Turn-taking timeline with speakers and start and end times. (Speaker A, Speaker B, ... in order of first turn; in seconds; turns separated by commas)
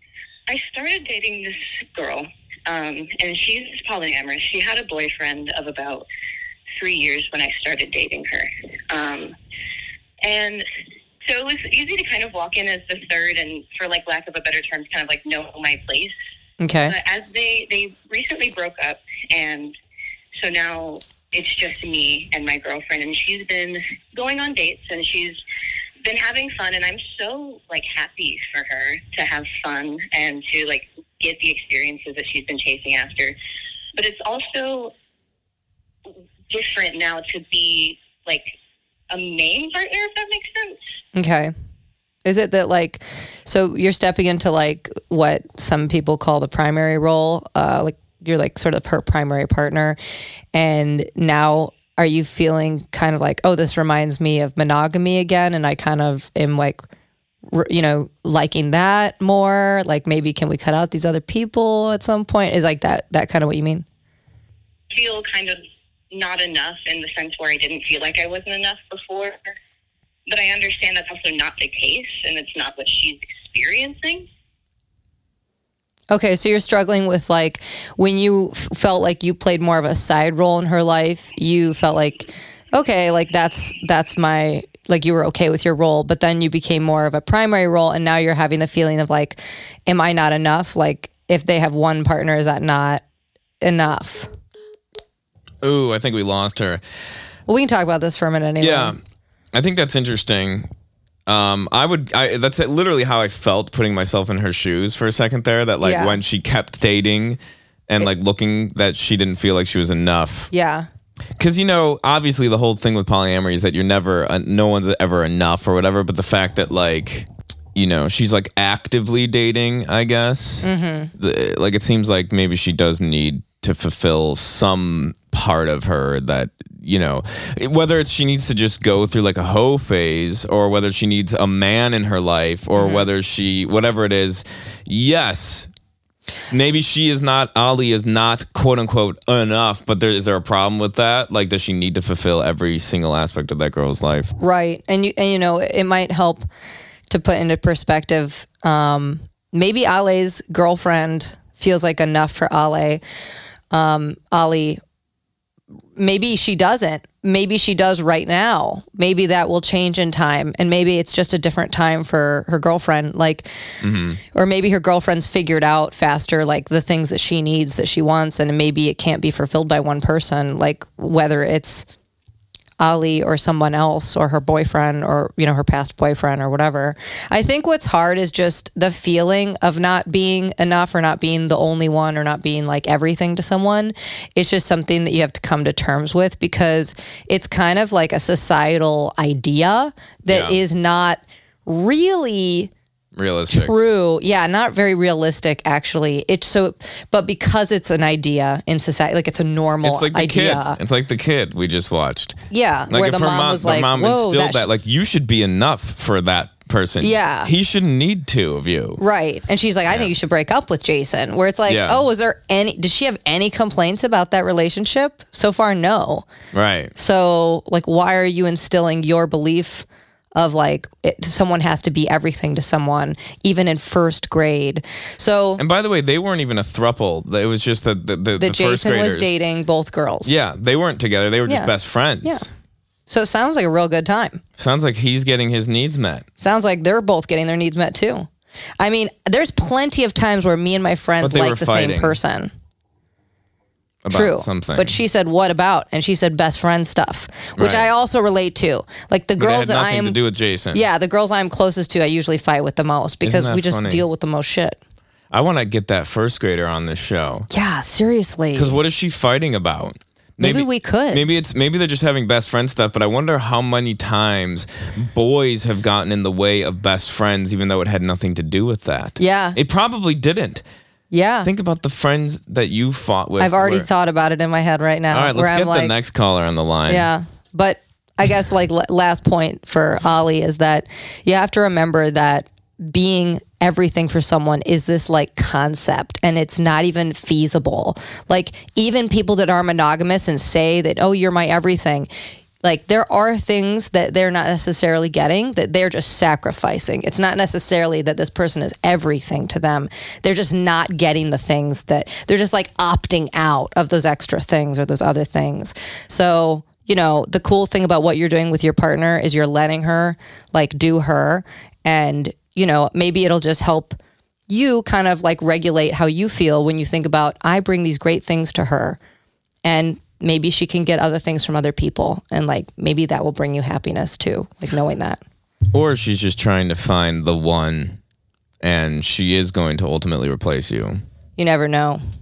Speaker A: 0.5-6.0, Speaker A: 6.7-9.3, Speaker A: 10.2-10.7, Speaker A: 11.2-16.1, Speaker B: 16.6-16.9, Speaker A: 16.8-19.8, Speaker A: 20.3-25.4, Speaker A: 26.0-33.3, Speaker A: 34.0-34.9, Speaker A: 36.1-38.6, Speaker A: 39.1-40.8, Speaker B: 41.1-41.5, Speaker B: 42.2-50.0, Speaker B: 50.5-56.8, Speaker B: 57.5-63.8, Speaker A: 64.9-69.3, Speaker A: 70.2-74.3, Speaker B: 76.1-93.0, Speaker B: 93.6-94.3, Speaker C: 95.6-96.8, Speaker B: 97.5-99.0, Speaker C: 98.6-99.0, Speaker C: 99.5-100.7, Speaker C: 101.3-110.5, Speaker B: 105.8-106.2, Speaker B: 110.5-110.9, Speaker C: 111.4-135.7, Speaker B: 120.6-121.1, Speaker B: 132.7-133.1, Speaker C: 136.5-144.3, Speaker B: 144.4-146.5, Speaker B: 147.1-153.0, Speaker B: 153.7-154.8, Speaker B: 155.9-163.5, Speaker C: 163.8-164.2, Speaker B: 164.3-171.9, Speaker B: 172.8-192.7, Speaker C: 190.3-190.6, Speaker C: 193.1-193.8, Speaker B: 193.5-200.8, Speaker C: 199.8-202.4, Speaker B: 202.5-204.7, Speaker C: 202.9-209.0, Speaker B: 207.0-207.5, Speaker B: 209.0-216.2, Speaker C: 211.7-212.0, Speaker C: 216.5-216.9, Speaker B: 216.9-225.6, Speaker C: 225.6-229.3, Speaker B: 228.4-230.3, Speaker C: 230.2-232.5, Speaker B: 231.4-231.7, Speaker B: 233.1-234.4, Speaker C: 234.6-236.2, Speaker B: 236.4-238.3, Speaker B: 238.8-242.5, Speaker C: 241.2-242.2, Speaker C: 244.0-244.9, Speaker B: 244.1-250.2, Speaker C: 247.6-247.9, Speaker C: 249.4-250.8, Speaker B: 250.7-254.8, Speaker C: 253.2-254.0, Speaker C: 255.3-257.5, Speaker B: 257.5-258.8, Speaker C: 258.5-270.6, Speaker B: 260.4-261.2, Speaker B: 269.2-269.6, Speaker B: 271.1-271.5, Speaker C: 271.4-273.9, Speaker B: 273.4-275.9, Speaker C: 275.1-277.1, Speaker B: 276.9-292.1, Speaker B: 292.6-319.0, Speaker B: 319.6-325.2, Speaker C: 325.7-328.0, Speaker C: 328.6-331.0, Speaker B: 331.4-332.0